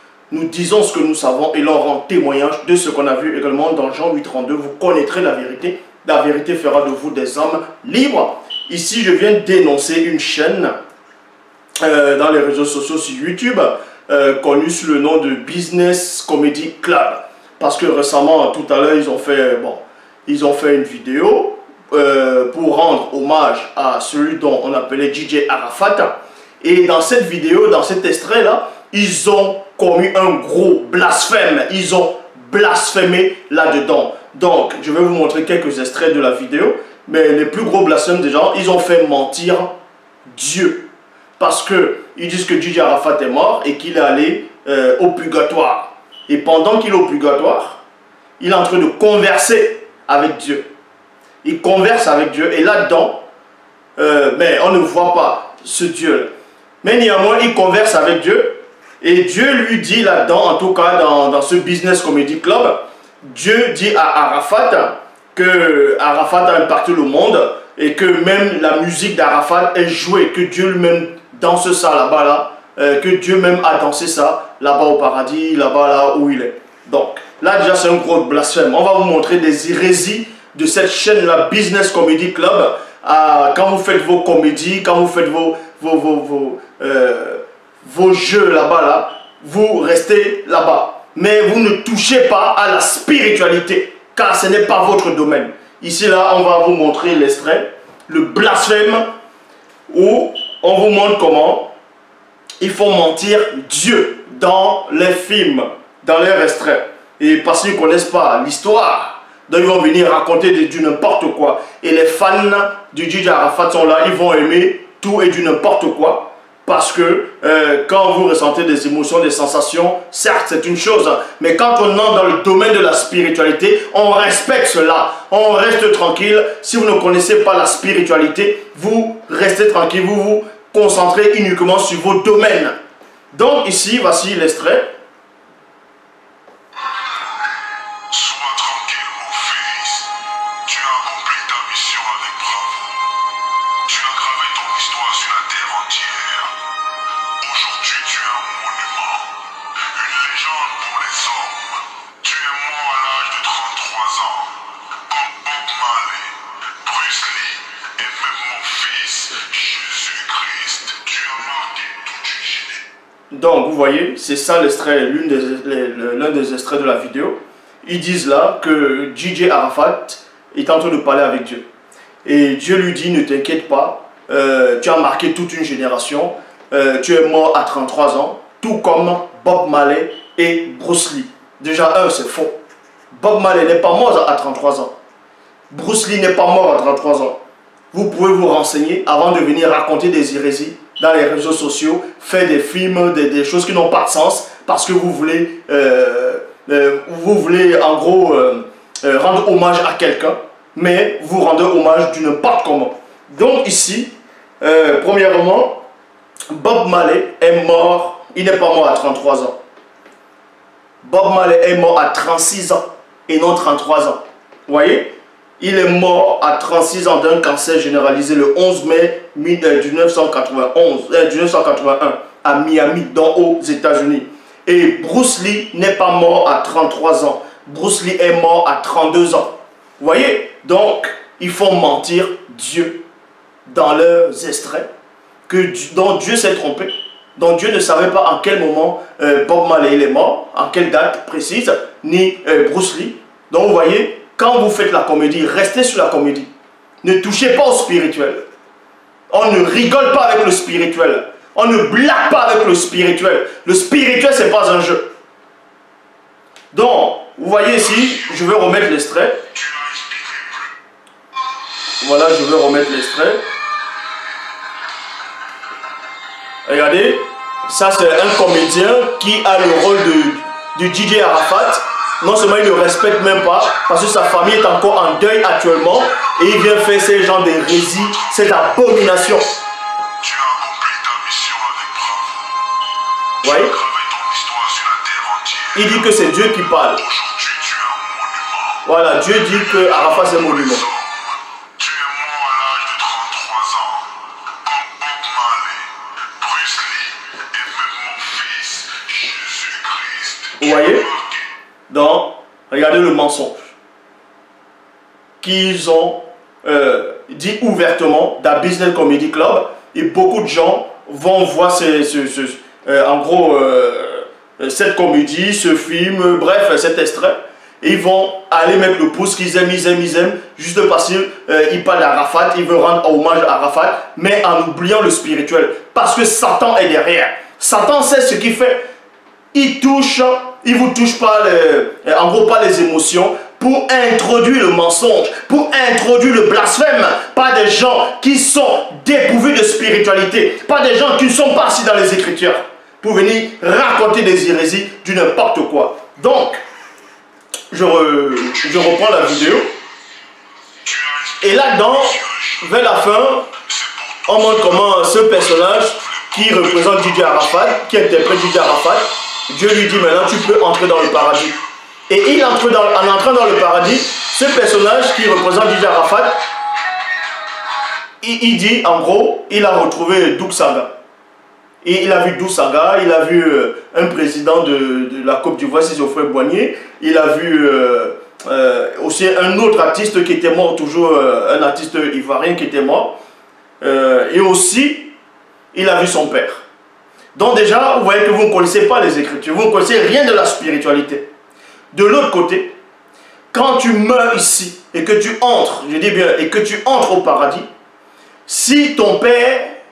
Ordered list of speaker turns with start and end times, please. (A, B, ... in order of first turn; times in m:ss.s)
0:00.3-0:10.8 A
0:11.8-0:39.7 A
0:40.3-0:40.8 A
0:41.4-0:47.8 A
0:48.4-0:50.6 A
0:51.4-0:53.2 A
0:54.0-0:56.3 A
0:56.8-1:39.1 A
1:39.9-1:41.7 A
1:42.6-2:12.8 A
2:13.3-2:14.9 A
2:18.1-2:23.1 B
2:23.8-2:26.6 B
2:27.4-2:42.8 B
2:43.3-2:51.6 A
2:52.2-3:02.5 A
3:03.1-3:04.9 A
3:05.7-3:07.4 A
3:07.9-3:25.8 A
3:26.5-3:29.6 A
3:31.0-3:53.0 A
3:53.7-3:54.9 A
3:55.5-4:06.5 A
4:07.0-4:08.4 A
4:09.3-4:15.1 A
4:16.7-4:19.5 A
4:19.6-4:20.7 B
4:22.0-4:23.4 A
4:26.7-4:39.6 A
4:40.2-4:42.6 B
4:43.4-4:43.8 A
4:43.4-4:46.0 B
4:45.8-4:47.0 A
4:47.0-4:48.8 B
4:48.8-4:50.9 A
4:49.7-5:01.4 B
5:00.6-5:01.1 A
5:01.9-5:03.7 A
5:05.4-5:28.8 A
5:29.5-5:46.6 A
5:47.7-5:49.7 A
5:50.8-5:51.5 B
5:51.4-5:53.5 A
5:53.7-5:54.4 B
5:54.3-6:01.6 A
6:02.1-6:06.4 A
6:08.2-6:10.9 A
6:11.8-6:23.2 A
6:23.8-6:25.1 A
6:25.7-6:26.6 A
6:27.4-6:31.3 A
6:31.9-6:32.7 A
6:33.5-6:37.7 A
6:38.5-6:39.8 A